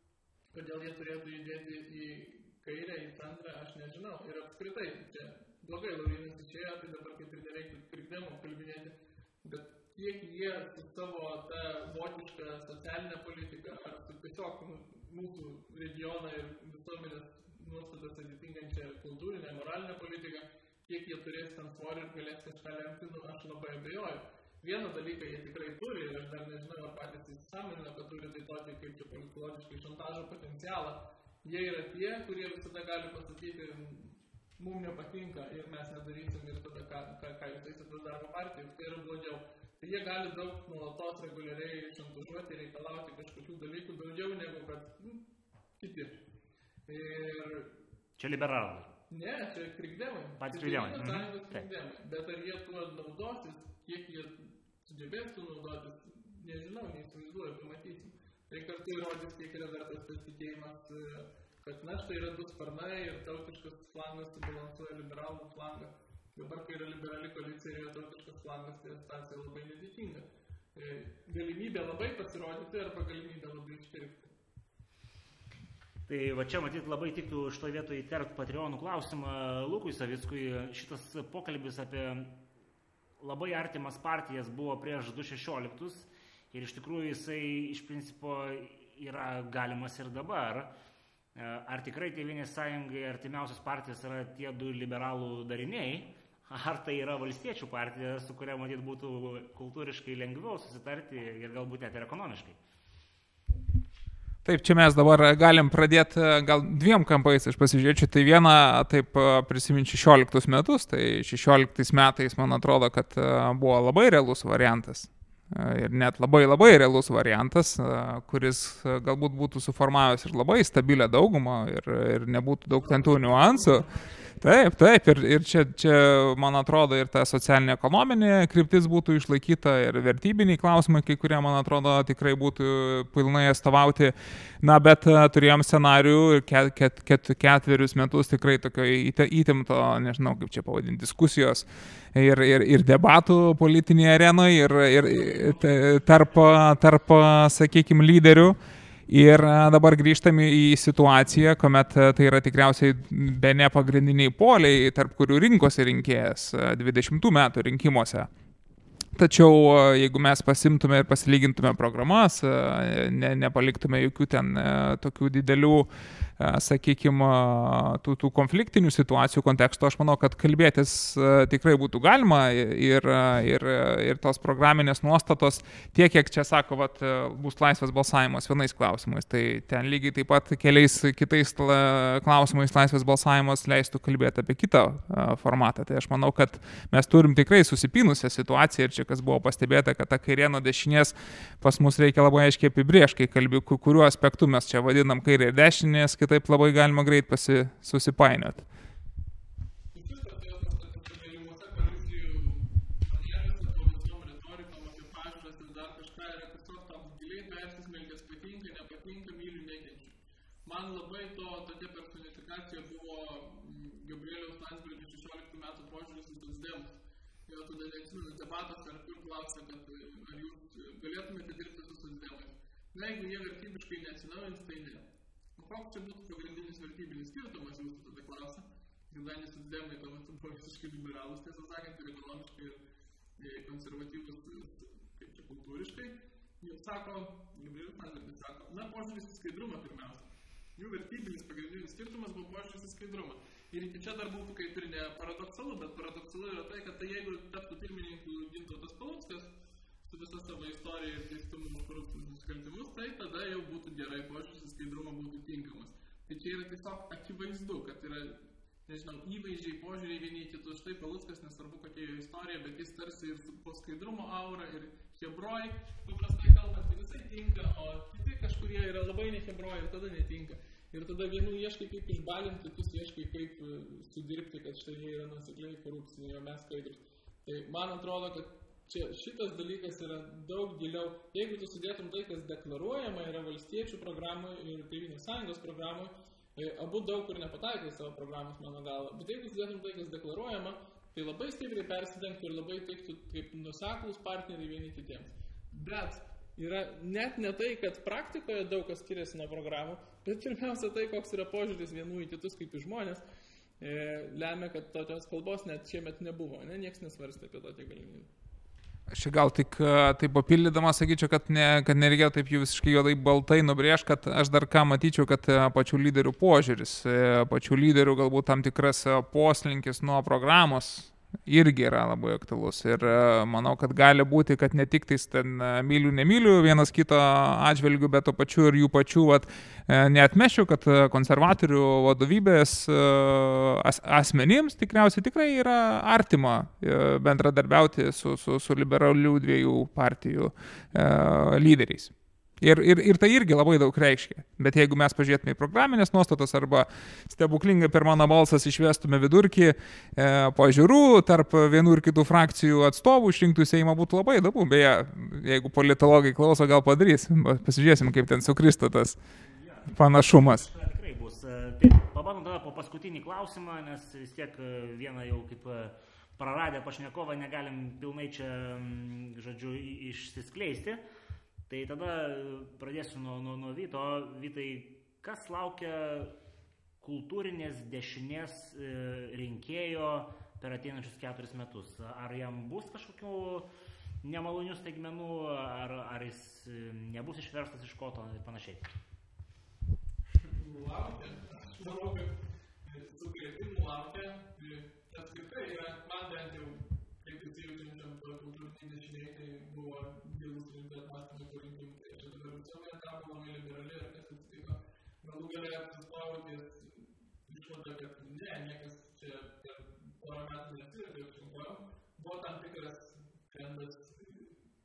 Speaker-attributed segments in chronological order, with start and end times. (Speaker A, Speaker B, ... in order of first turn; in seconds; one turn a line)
Speaker A: 0.5-45.2
Speaker A: 45.8-46.2
Speaker A: 46.9-47.7
Speaker B: 48.2-48.9
Speaker A: 49.1-74.3
Speaker B: 50.4-51.7
Speaker B: 76.1-82.4
Speaker B: 83.2-90.7
Speaker B: 91.3-102.6
Speaker C: 104.5-123.9
Speaker B: 122.7-124.4
Speaker C: 124.4-148.6
Speaker B: 145.0-146.7
Speaker C: 149.1-158.3
Speaker C: 159.2-165.9
Speaker C: 166.4-198.7
Speaker A: 199.9-232.8
Speaker A: 233.4-249.5
Speaker A: 250.1-303.2
Speaker A: 303.8-308.3
Speaker C: 309.1-359.2
Speaker B: 359.4-371.0
Speaker C: 359.9-360.7
Speaker B: 371.7-376.4
Speaker B: 377.0-383.7
Speaker B: 384.2-388.9
Speaker A: 390.5-392.3
Speaker A: 392.9-414.6